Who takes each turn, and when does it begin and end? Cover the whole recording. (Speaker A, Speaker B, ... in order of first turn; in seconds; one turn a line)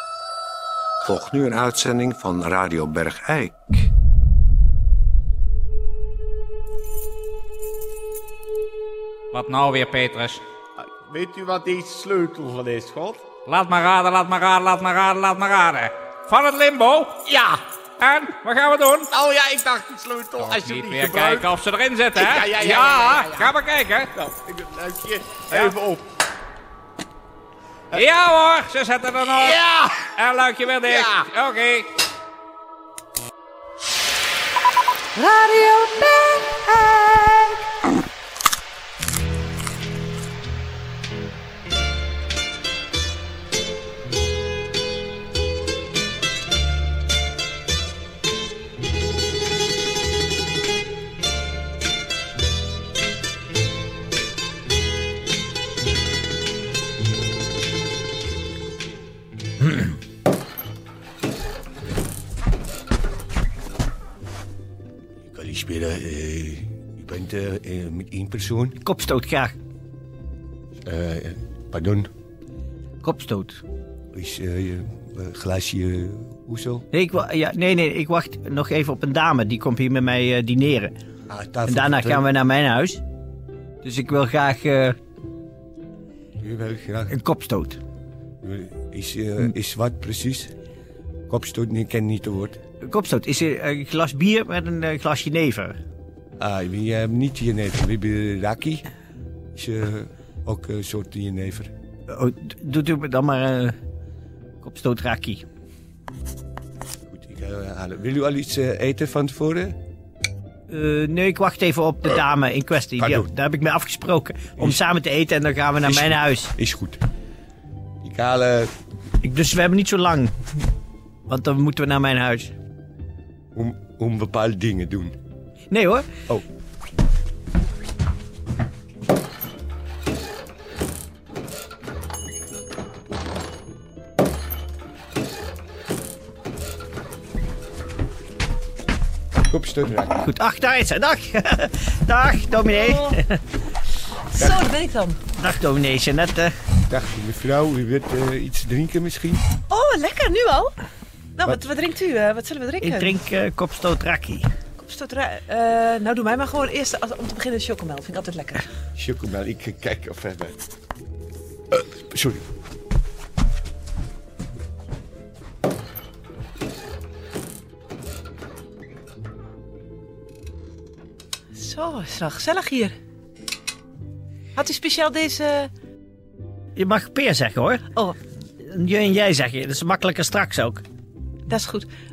Speaker A: 1.0-3.9
Speaker B: 9.3-10.4
Speaker C: 10.8-13.2
Speaker B: 13.4-17.2
Speaker C: 17.3-17.6
Speaker B: 18.0-19.1
Speaker C: 19.1-21.5
Speaker B: 20.4-24.1
Speaker C: 22.1-23.5
Speaker C: 24.1-26.0
Speaker B: 27.9-31.9
Speaker C: 29.3-30.1
Speaker C: 30.8-31.1
Speaker D: 35.2-37.6
Speaker E: 65.3-68.8
Speaker D: 68.8-69.5
Speaker E: 70.8-72.1
Speaker D: 73.0-73.6
Speaker E: 74.1-76.8
Speaker D: 76.9-80.9
Speaker E: 81.3-82.2
Speaker D: 81.7-83.0
Speaker D: 83.8-85.0
Speaker E: 86.4-87.2
Speaker D: 87.1-87.8
Speaker E: 88.4-90.5
Speaker E: 91.3-92.6
Speaker D: 92.8-95.8
Speaker E: 96.4-98.9
Speaker E: 99.5-101.7
Speaker D: 102.1-103.7
Speaker D: 104.6-105.4
Speaker E: 107.1-109.8
Speaker D: 110.7-116.5
Speaker E: 113.0-113.3
Speaker E: 115.8-117.0
Speaker E: 118.0-118.7
Speaker D: 119.2-120.3
Speaker D: 121.3-122.5
Speaker E: 123.5-125.1
Speaker D: 125.7-126.1
Speaker E: 139.5-140.2
Speaker D: 140.2-143.4
Speaker F: 144.3-145.2
Speaker D: 145.3-146.5
Speaker E: 146.9-149.4
Speaker F: 149.7-150.7
Speaker F: 151.4-153.1
Speaker D: 152.8-154.5
Speaker F: 154.8-158.7
Speaker E: 158.9-160.6
Speaker E: 161.7-162.4
Speaker F: 171.5-172.9
Speaker F: 174.5-175.7
Speaker D: 176.8-177.8
Speaker D: 178.6-180.8
Speaker F: 181.5-181.9